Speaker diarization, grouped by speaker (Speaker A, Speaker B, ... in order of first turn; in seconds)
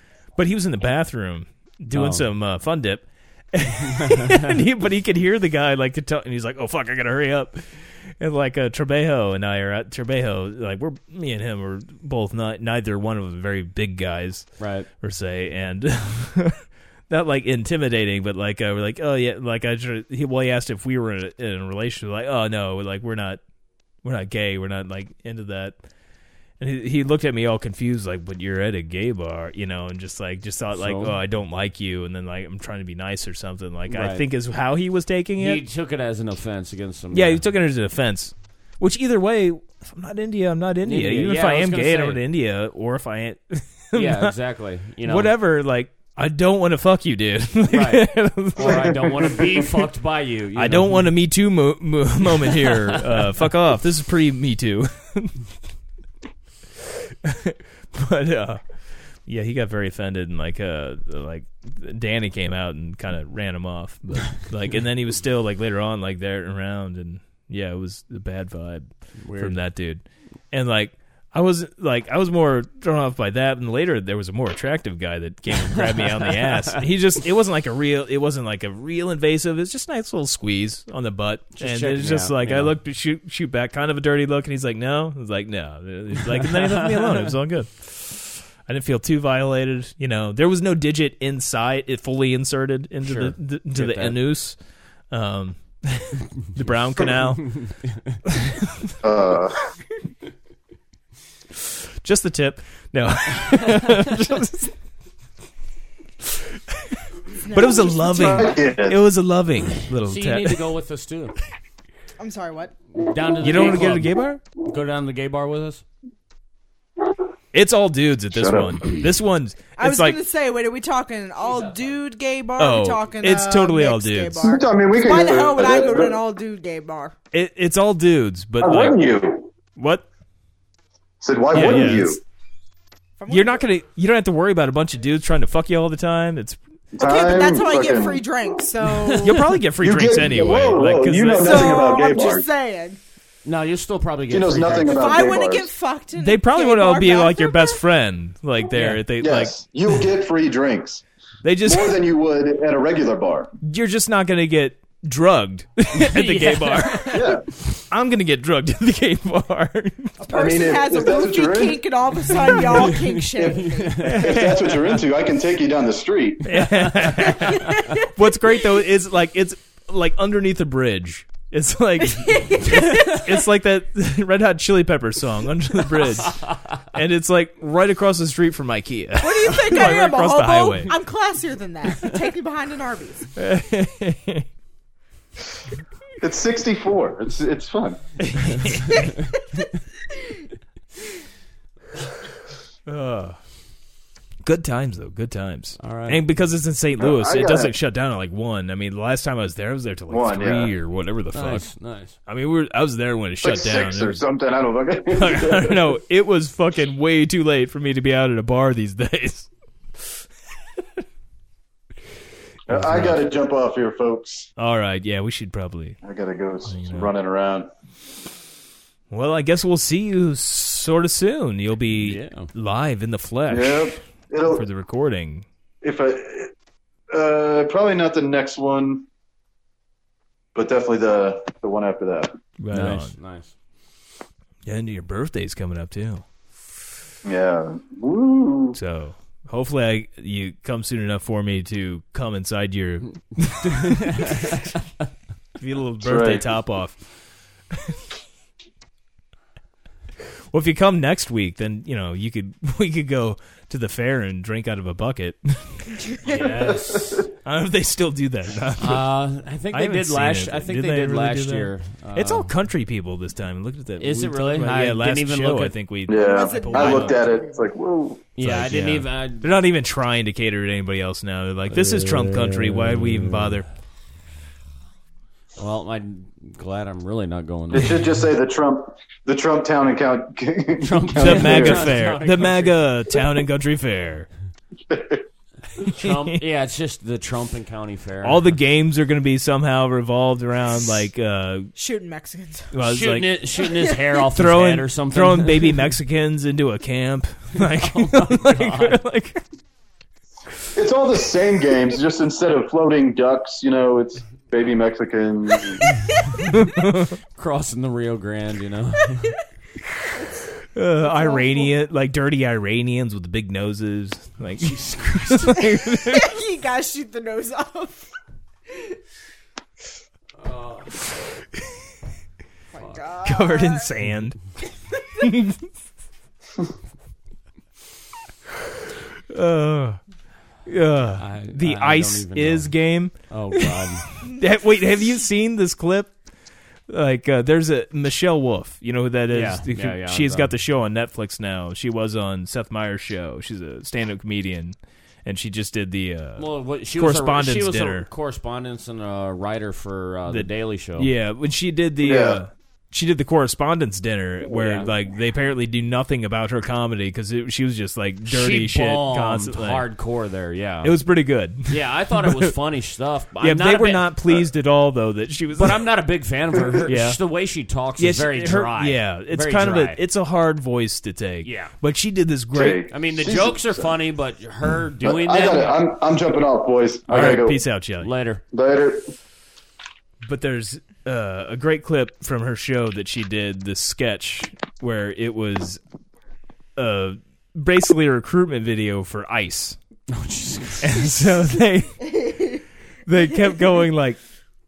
Speaker A: 0.4-16.6, 17.1-23.4, 24.0-25.8, 26.6-35.6, 37.1-44.3, 45.0-49.0, 50.5-55.4, 57.2-58.6, 59.3-94.6, 95.1-97.6, 102.0-104.7, 106.2-110.6, 113.4-114.4, 117.5-120.2, 122.6-124.5, 127.3-129.0, 129.8-130.1, 131.5-132.2, 133.3-136.6, 139.2-141.9, 146.2-149.5, 151.4-152.0, 153.6-160.2, 164.0-164.9, 166.5-180.9, 183.4-184.4, 188.3-189.0, 192.9-193.4, 194.4-201.7, 202.3-204.2, 205.1-209.5, 212.7-213.3, 214.6-216.0, 216.7-217.1, 219.1-225.5, 232.6-233.1, 234.7-236.2, 238.7-244.6, 245.6-247.0, 250.5-255.9, 257.4-259.1, 259.7-267.2, 268.4-273.7, 281.2-284.3, 286.0-286.4, 288.2-291.7, 292.7-293.3, 294.3-299.4, 306.5-307.2, 310.7-316.3, 323.2-324.5, 325.2-325.6, 329.3-330.0, 330.7-336.1, 336.9-346.4, 347.0-348.1, 350.3-359.8, 360.8-362.5, 363.4-365.8, 366.9-367.2, 368.0-372.8, 377.1-378.1, 380.2-385.8, 386.8-389.8, 390.8-392.2, 393.1-394.2
Speaker B: 1.9-2.3, 3.9-4.6, 14.6-14.9, 30.7-31.1, 33.9-34.2, 35.4-37.4, 40.8-42.2, 43.9-45.3, 47.7-51.1, 52.3-53.4, 69.2-69.6, 75.6-76.8, 81.6-82.8, 86.3-87.3, 93.0-94.2, 97.4-98.2, 110.0-111.3, 112.9-115.8, 121.5-121.9, 143.4-145.1, 148.7-149.0, 155.9-157.4, 162.6-164.9, 166.6-167.4, 195.8-196.2, 201.3-202.2, 221.9-222.5, 232.7-233.5, 243.7-244.6, 256.2-257.3, 258.8-262.5, 264.0-265.8, 268.4-269.6, 271.7-273.6, 275.6-278.0, 280.8-282.8, 285.8-288.5, 292.8-295.9, 297.6-299.0, 307.4-309.4, 314.6-315.6, 320.4-321.0, 331.2-332.8, 333.3-334.2, 339.3-340.5, 346.4-351.1, 354.5-354.9, 358.3-361.0, 361.7-364.1, 365.5-370.0, 371.4-371.7, 372.9-375.8, 378.0-378.4, 390.1-391.1
Speaker C: 48.6-49.7, 99.0-99.7, 107.9-109.0, 118.3-119.1, 124.4-126.2, 128.6-129.5, 131.2-132.2, 136.9-138.2, 139.8-142.5, 144.3-145.7, 149.2-151.0, 151.7-153.5, 157.1-157.4, 160.3-161.8, 163.4-166.6, 186.2-188.0, 197.0-197.7, 200.1-200.7, 203.4-205.8, 212.7-214.5, 216.0-217.7, 223.5-224.6, 225.8-226.5, 227.1-229.1, 230.6-232.4, 237.2-238.8, 246.0-246.4, 256.7-257.2, 266.1-268.2, 277.7-282.0, 284.9-285.2, 300.8-305.9, 352.0-352.4, 372.5-373.9, 375.0-377.6, 378.5-379.1
Speaker D: 107.4-108.5, 112.2-112.8, 119.8-127.2, 133.2-133.6, 137.0-139.3, 141.4-143.0, 144.9-147.8, 160.2-164.4, 167.4-168.1, 172.0-173.4, 179.2-183.3, 188.9-189.7, 255.9-256.6, 266.2-267.7, 291.8-292.7, 293.6-294.0, 310.2-310.5, 311.0-311.7, 315.9-318.1, 322.7-324.0, 392.0-392.6